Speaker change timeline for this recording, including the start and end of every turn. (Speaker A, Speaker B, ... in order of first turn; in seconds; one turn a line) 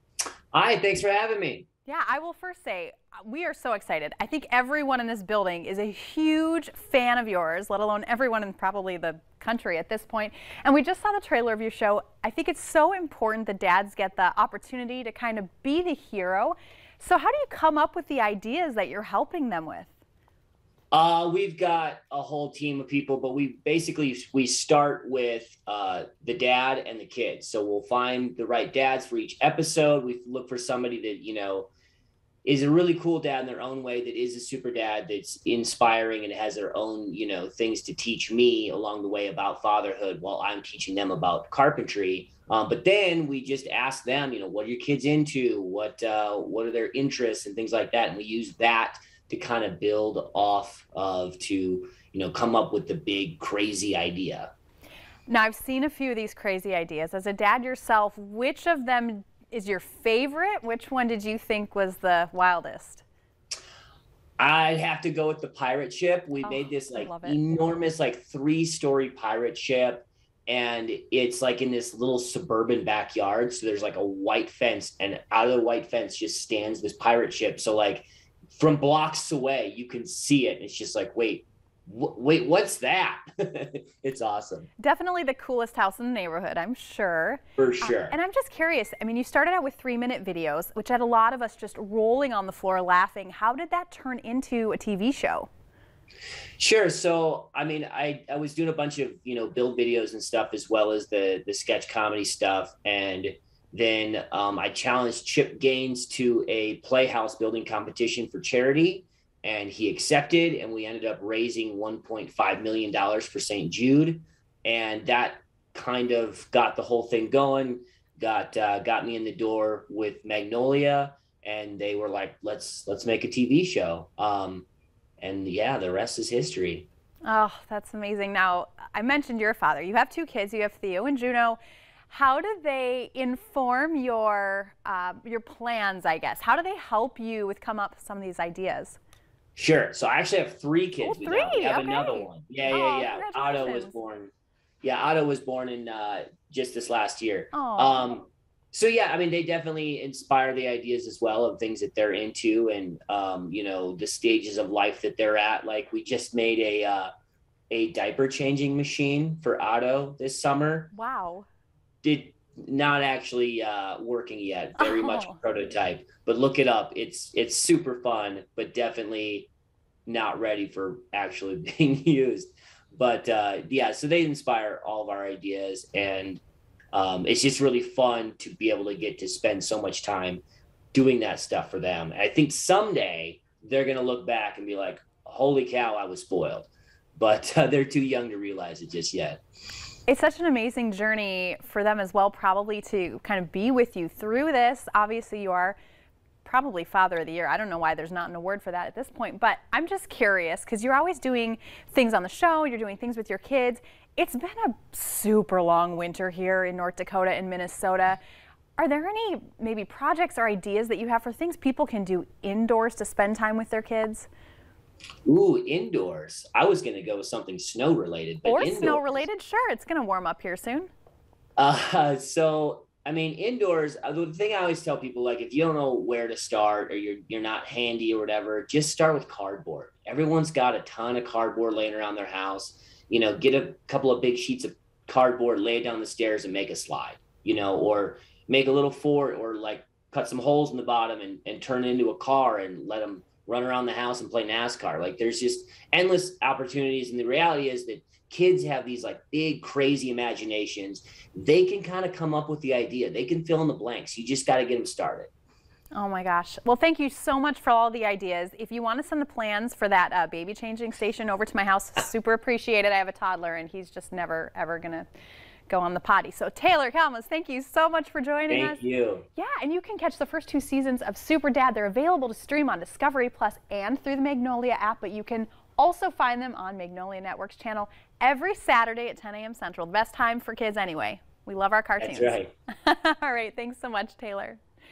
Speaker A: 0.5-1.7
Speaker B: 1.9-19.9
Speaker A: 20.9-31.7
Speaker A: 32.5-54.5
Speaker B: 55.3-63.0
Speaker A: 64.4-84.7
Speaker B: 66.4-67.4
Speaker B: 84.8-95.5
Speaker A: 87.6-88.2
Speaker A: 96.6-124.7
Speaker A: 125.2-126.9
Speaker B: 127.3-131.6
Speaker B: 132.1-139.0
Speaker A: 139.6-144.3
Speaker B: 141.0-144.0
Speaker A: 144.8-157.1
Speaker B: 147.5-148.1
Speaker A: 157.7-160.9
Speaker B: 160.9-161.5
Speaker A: 162.0-169.5
Speaker B: 164.8-165.4
Speaker A: 170.1-176.4
Speaker A: 176.9-180.4
Speaker A: 180.9-189.4
Speaker B: 190.1-195.8
Speaker B: 196.4-208.2
Speaker B: 208.8-214.3
Speaker A: 215.2-219.2
Speaker B: 218.4-220.9
Speaker A: 221.6-255.3
Speaker B: 255.9-265.1
Speaker B: 265.7-268.8
Speaker A: 268.5-269.3
Speaker B: 269.4-284.6
Speaker A: 282.0-282.5